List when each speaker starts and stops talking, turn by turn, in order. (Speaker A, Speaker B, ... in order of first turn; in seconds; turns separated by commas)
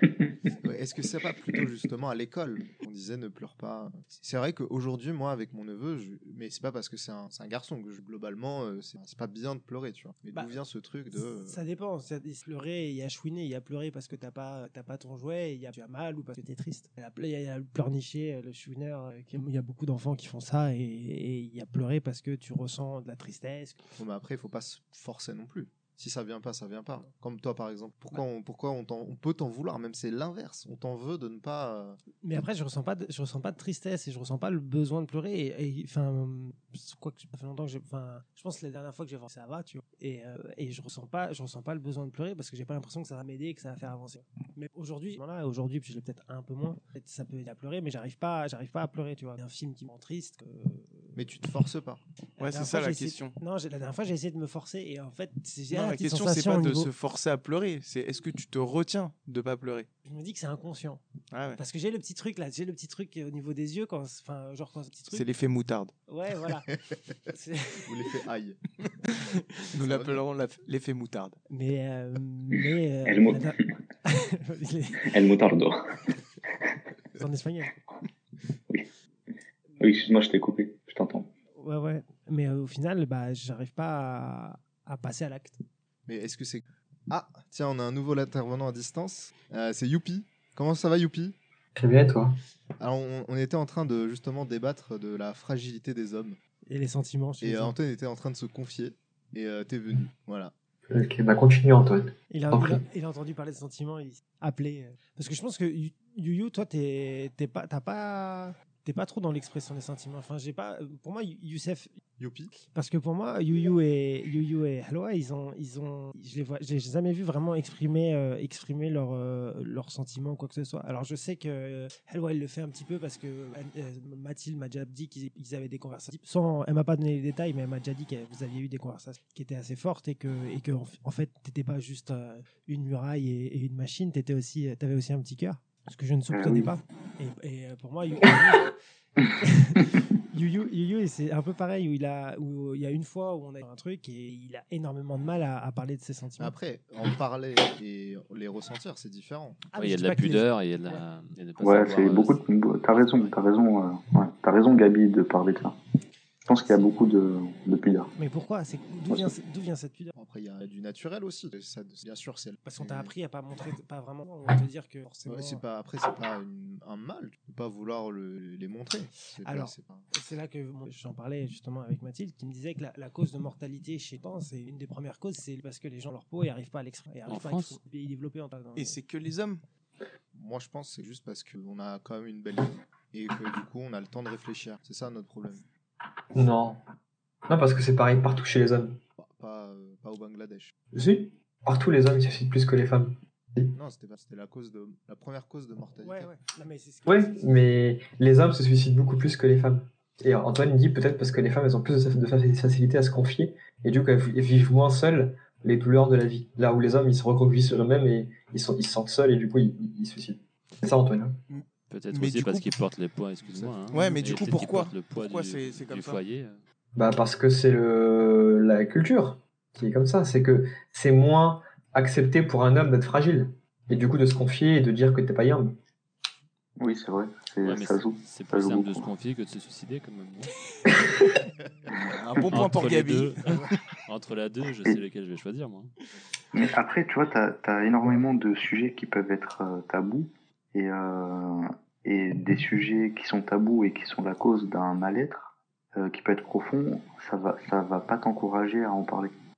Speaker A: 0.6-11.6, Speaker B: 11.2-23.8, Speaker A: 23.9-32.0, Speaker B: 32.2-51.2, Speaker A: 51.1-52.0, Speaker B: 52.4-56.9, Speaker C: 52.4-53.4, Speaker C: 55.7-59.9, Speaker B: 60.0-61.0, Speaker C: 61.3-61.6, Speaker B: 61.6-65.3, Speaker C: 65.1-65.9, Speaker B: 66.1-66.7, Speaker B: 67.3-68.0, Speaker A: 67.8-68.7, Speaker B: 69.1-69.7, Speaker C: 69.7-71.4, Speaker A: 69.8-70.2, Speaker B: 71.5-75.1, Speaker D: 73.0-73.7, Speaker D: 75.0-76.2, Speaker B: 77.2-77.8, Speaker D: 79.8-81.3, Speaker B: 81.5-85.6, Speaker A: 86.1-91.4, Speaker E: 91.8-92.4, Speaker A: 92.8-96.4, Speaker B: 96.7-97.7, Speaker A: 97.4-100.5, Speaker E: 100.9-102.8, Speaker B: 102.3-111.9, Speaker A: 112.2-112.5, Speaker B: 112.7-138.7, Speaker D: 136.3-136.7, Speaker B: 139.4-146.5, Speaker A: 146.4-149.6, Speaker B: 149.7-151.0, Speaker F: 149.8-153.3, Speaker D: 151.6-155.8, Speaker D: 156.4-158.1, Speaker B: 158.2-160.1, Speaker A: 160.1-163.1, Speaker B: 162.7-165.6, Speaker A: 165.3-170.1, Speaker B: 169.4-179.0, Speaker F: 177.3-177.8, Speaker C: 178.8-179.6, Speaker A: 180.3-185.6, Speaker E: 186.3-186.8, Speaker E: 187.5-189.0, Speaker A: 189.2-190.7, Speaker E: 190.9-193.8, Speaker A: 193.8-196.3, Speaker B: 196.0-197.4, Speaker E: 197.1-211.4, Speaker C: 211.5-212.8, Speaker F: 211.9-216.6, Speaker A: 213.4-213.9, Speaker B: 213.9-214.2, Speaker C: 213.9-216.2, Speaker E: 217.0-225.8, Speaker D: 226.8-229.1, Speaker F: 227.6-230.6, Speaker E: 230.9-231.4, Speaker C: 232.0-233.5, Speaker F: 232.5-235.9, Speaker D: 236.5-249.3